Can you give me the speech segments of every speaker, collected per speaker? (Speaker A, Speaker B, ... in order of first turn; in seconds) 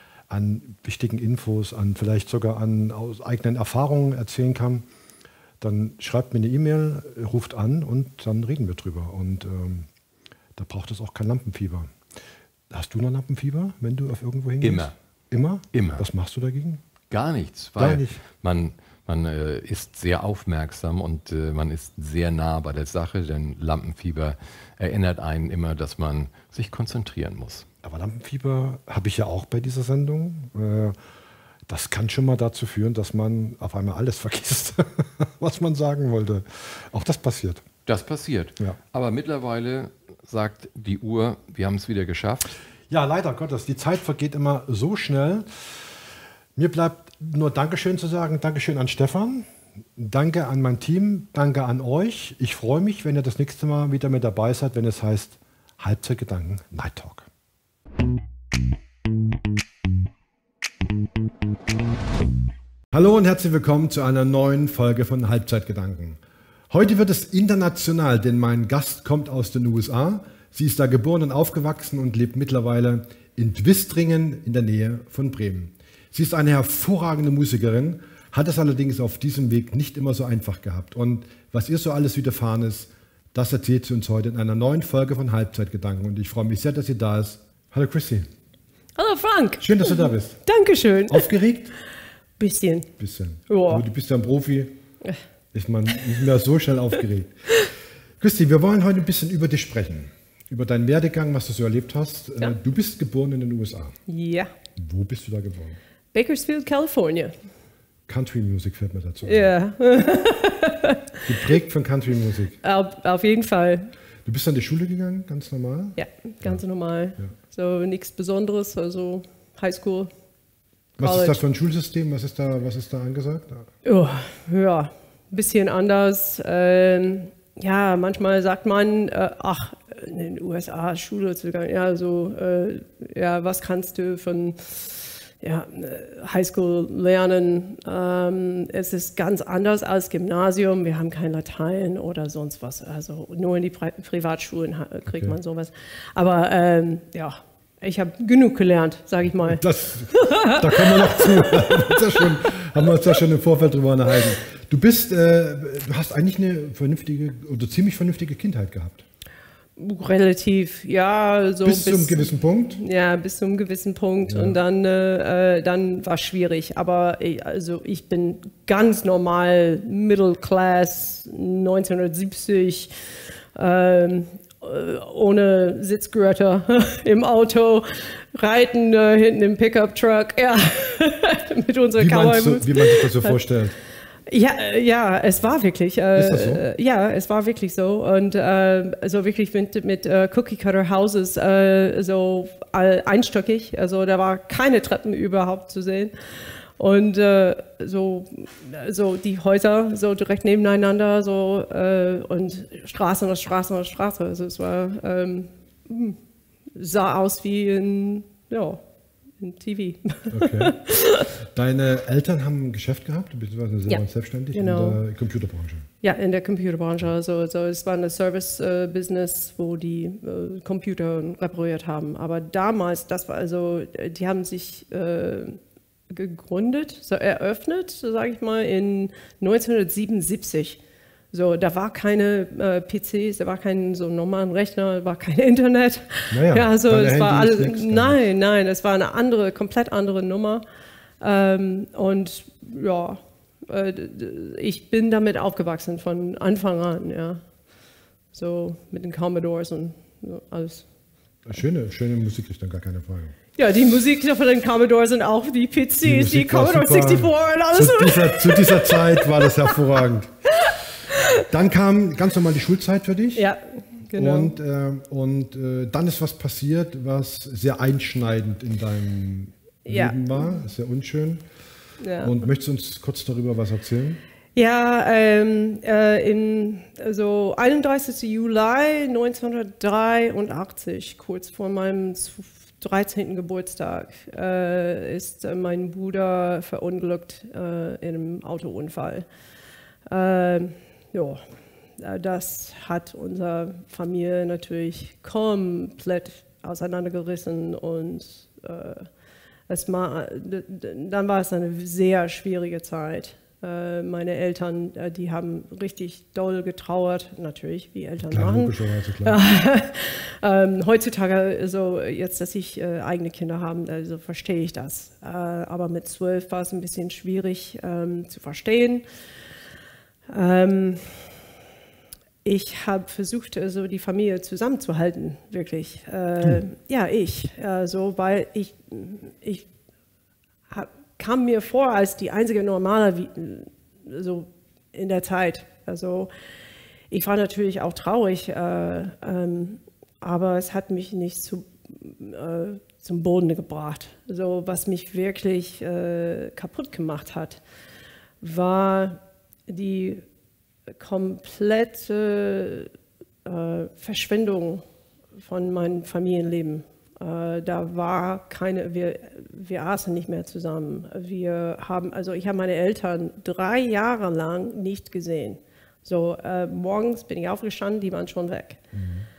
Speaker A: 0.3-4.8, 5.6-9.9, 10.6-11.9, 12.7-16.8, 17.8-18.2, 27.8-30.9, 31.7-37.6, 42.9-45.8, 46.5-57.3, 62.9-66.2, 66.7-88.3, 89.6-90.4, 91.1-91.7, 93.0-94.8, 95.5-97.5, 98.2-104.0, 104.8-105.8, 108.1-109.5, 111.2-112.6, 114.2-116.6, 121.0-123.7, 145.1-145.3, 149.4-159.0, 161.6-162.8, 164.3-164.6, 182.0-183.8, 186.2-186.6, 210.3-215.9, 236.3-238.2, 251.4-253.3, 256.0-260.3, 261.5-263.4, 264.1-271.4, 272.2-274.2, 308.2-309.4, 368.9-369.3
Speaker B: 14.6-14.9, 15.7-16.0, 17.1-27.6, 37.9-42.5
Speaker C: 89.0-91.3, 92.4-92.9, 93.5-93.8, 104.1-104.5, 106.1-107.3, 109.2-111.0, 112.6-113.9, 116.0-120.1, 121.0-121.4, 123.8-152.2, 159.8-172.9, 173.5-183.4, 184.3-196.1, 196.8-206.2, 206.7-208.8, 209.4-211.3, 214.5-215.0, 216.0-225.6, 226.1-230.8, 231.3-240.6, 241.2-247.4, 248.3-250.8, 253.6-259.8, 260.7-261.4, 263.3-264.6, 269.8-270.6, 272.0-272.3, 274.6-289.2, 290.1-291.4, 292.0-299.1, 299.7-319.0, 320.3-321.3, 322.4-329.6, 330.7-336.3, 337.1-347.6, 348.4-350.2, 350.9-352.9, 353.4-354.8, 355.4-368.8